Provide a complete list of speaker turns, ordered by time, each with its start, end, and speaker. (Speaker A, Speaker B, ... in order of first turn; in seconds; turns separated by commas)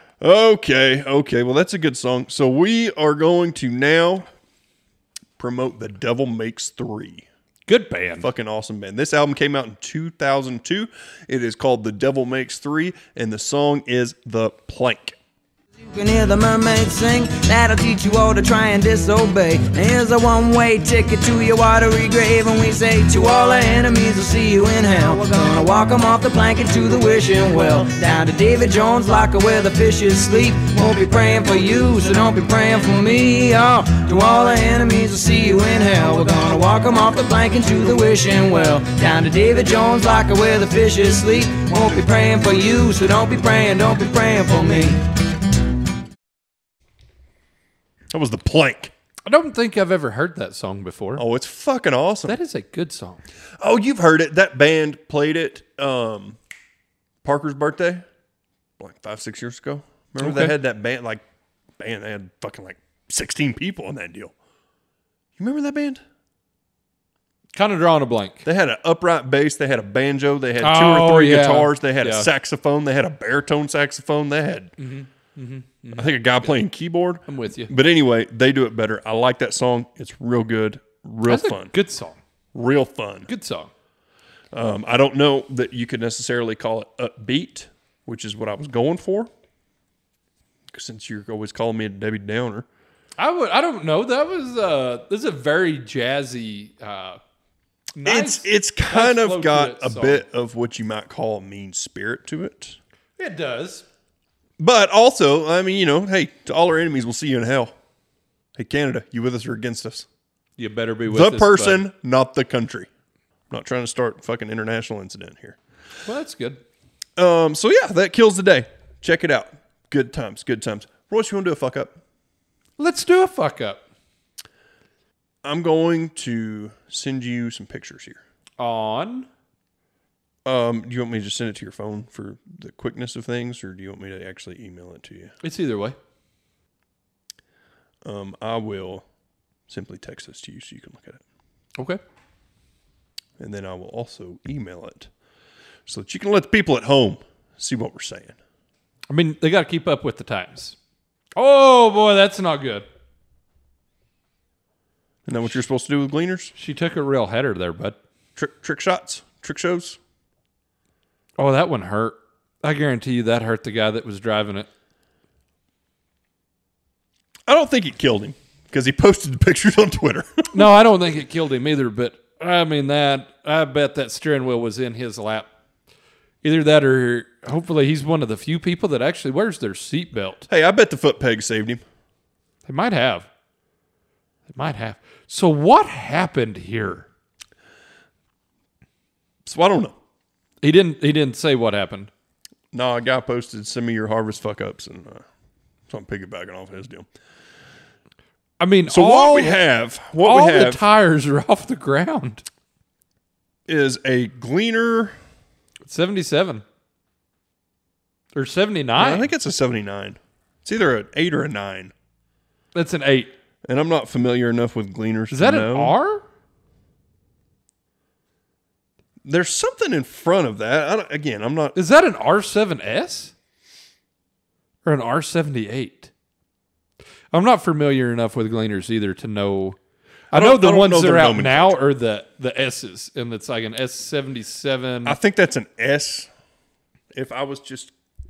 Speaker A: 0.2-4.3, Speaker A: 5.4-7.2, Speaker B: 7.7-8.3, Speaker A: 8.2-15.2, Speaker C: 15.8-45.0, Speaker A: 48.1-48.9, Speaker B: 49.2-51.2, Speaker A: 51.2-52.4, Speaker B: 52.3-53.2, Speaker A: 53.6-56.4, Speaker A: 57.2-58.0, Speaker A: 58.8-61.2, Speaker B: 60.2-60.5, Speaker A: 61.8-64.3, Speaker A: 65.4-66.0, Speaker B: 67.5-68.4, Speaker A: 68.4-74.7, Speaker B: 70.6-72.3, Speaker B: 74.8-76.1, Speaker A: 75.9-81.7, Speaker B: 77.3-77.7, Speaker B: 81.2-82.2, Speaker A: 82.5-83.3, Speaker B: 83.3-83.7, Speaker A: 84.5-89.3, Speaker A: 90.7-92.7, Speaker B: 93.2-97.2, Speaker B: 97.9-100.2, Speaker A: 98.0-102.8, Speaker B: 103.2-103.8, Speaker A: 104.6-107.7, Speaker A: 108.5-110.1, Speaker B: 110.6-111.8, Speaker A: 111.0-112.9, Speaker A: 113.5-115.6, Speaker B: 116.0-116.6, Speaker A: 117.2-122.0, Speaker B: 122.8-123.8, Speaker A: 125.4-128.2, Speaker B: 128.6-129.3, Speaker A: 130.4-135.3, Speaker B: 135.4-136.0, Speaker A: 138.0-139.0, Speaker A: 139.7-141.2, Speaker A: 143.4-145.1, Speaker A: 145.8-148.3, Speaker B: 149.1-150.8, Speaker B: 151.4-152.8, Speaker A: 155.2-156.5, Speaker B: 156.5-158.0, Speaker A: 158.3-160.0, Speaker B: 161.4-164.7, Speaker A: 167.5-170.7, Speaker B: 170.5-175.5, Speaker B: 176.4-180.5, Speaker A: 180.5-181.8, Speaker B: 182.7-183.3, Speaker B: 184.5-187.1, Speaker A: 189.4-189.9, Speaker B: 190.6-192.1, Speaker A: 192.7-195.2, Speaker A: 195.9-197.1, Speaker B: 198.6-199.6, Speaker A: 198.9-200.8, Speaker B: 200.2-202.4, Speaker A: 203.7-205.2, Speaker B: 205.8-206.6, Speaker B: 208.3-209.3, Speaker A: 209.0-211.9, Speaker B: 212.7-213.3, Speaker A: 213.6-215.9, Speaker B: 215.3-216.2, Speaker A: 219.2-221.8, Speaker B: 221.7-223.3, Speaker B: 224.8-226.1, Speaker B: 227.3-229.8, Speaker B: 230.3-235.2, Speaker A: 230.3-231.8, Speaker A: 235.0-236.3, Speaker A: 237.1-237.9